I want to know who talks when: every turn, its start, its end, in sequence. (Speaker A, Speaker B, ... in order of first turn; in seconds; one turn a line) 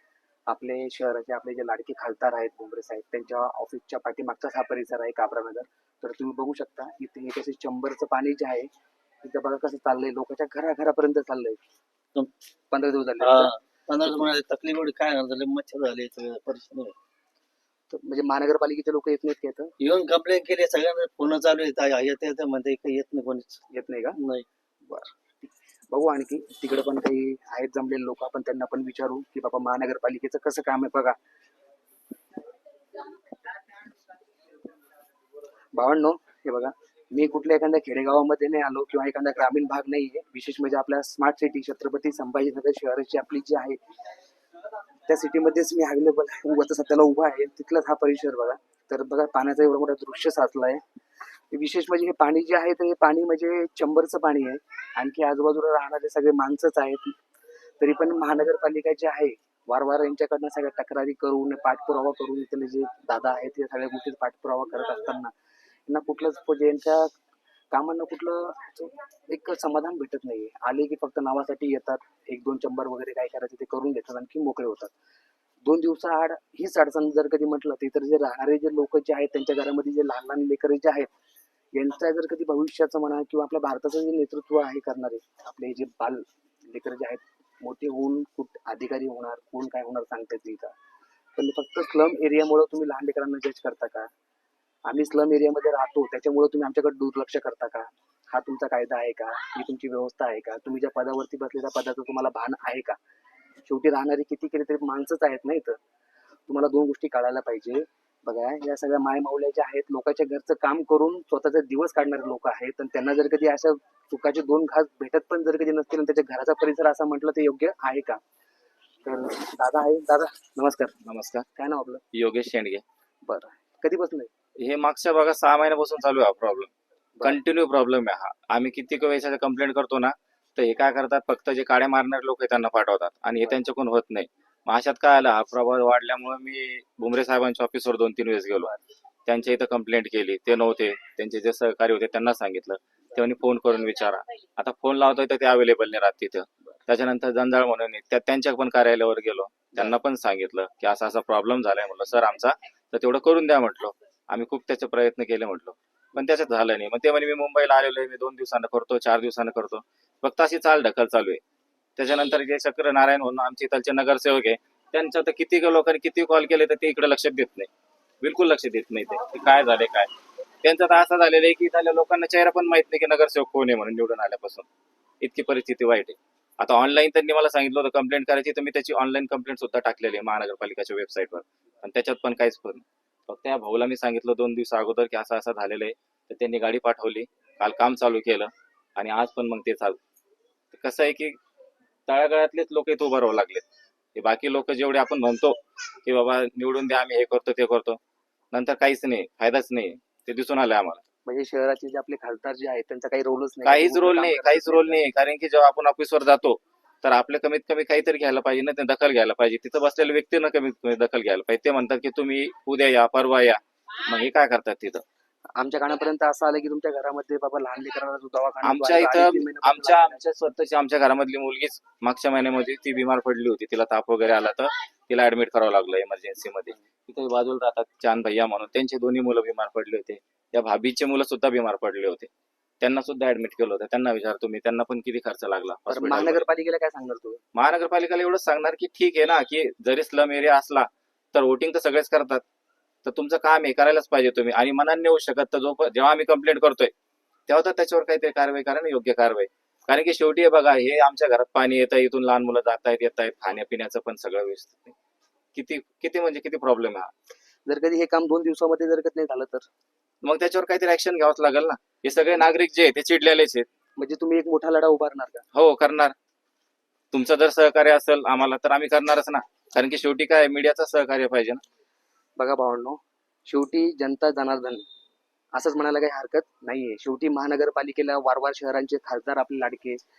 Speaker A: 0.5-8.7
Speaker A: 9.2-11.6
Speaker A: 12.7-13.5
Speaker B: 13.2-16.9
Speaker A: 17.9-19.7
Speaker B: 19.8-23.6
Speaker A: 23.7-24.2
Speaker B: 24.2-24.4
Speaker A: 24.9-31.1
Speaker A: 35.7-43.8
Speaker A: 45.1-50.8
Speaker A: 51.5-57.1
Speaker A: 57.8-65.3
Speaker A: 65.9-67.1
Speaker A: 67.7-74.9
Speaker A: 75.6-81.1
Speaker A: 81.7-90.7
Speaker A: 91.3-94.1
Speaker A: 94.8-103.0
Speaker A: 103.7-105.8
Speaker A: 106.5-118.2
Speaker A: 119.0-121.0
Speaker C: 121.0-121.5
Speaker A: 121.5-122.0
Speaker C: 122.1-122.8
Speaker A: 123.2-124.3
Speaker C: 124.6-126.7
Speaker C: 127.2-138.7
Speaker C: 139.2-161.4
Speaker C: 162.0-167.7
Speaker C: 168.2-170.1
Speaker C: 170.6-174.7
Speaker C: 175.2-190.0
Speaker C: 190.7-191.3
Speaker C: 192.1-193.6
Speaker C: 194.2-198.0
Speaker C: 198.5-201.0
Speaker A: 201.2-205.0
Speaker C: 203.6-215.0
Speaker A: 215.6-220.2
Speaker C: 218.6-232.3
Speaker C: 232.8-236.4
Speaker A: 235.9-237.4
Speaker C: 237.5-242.4
Speaker C: 243.0-246.9
Speaker C: 247.5-254.9
Speaker C: 255.5-257.1
Speaker A: 257.7-259.7
Speaker C: 260.2-263.7
Speaker A: 264.0-265.4
Speaker C: 265.5-266.1
Speaker C: 267.1-271.6
Speaker A: 272.4-274.9
Speaker A: 275.5-280.0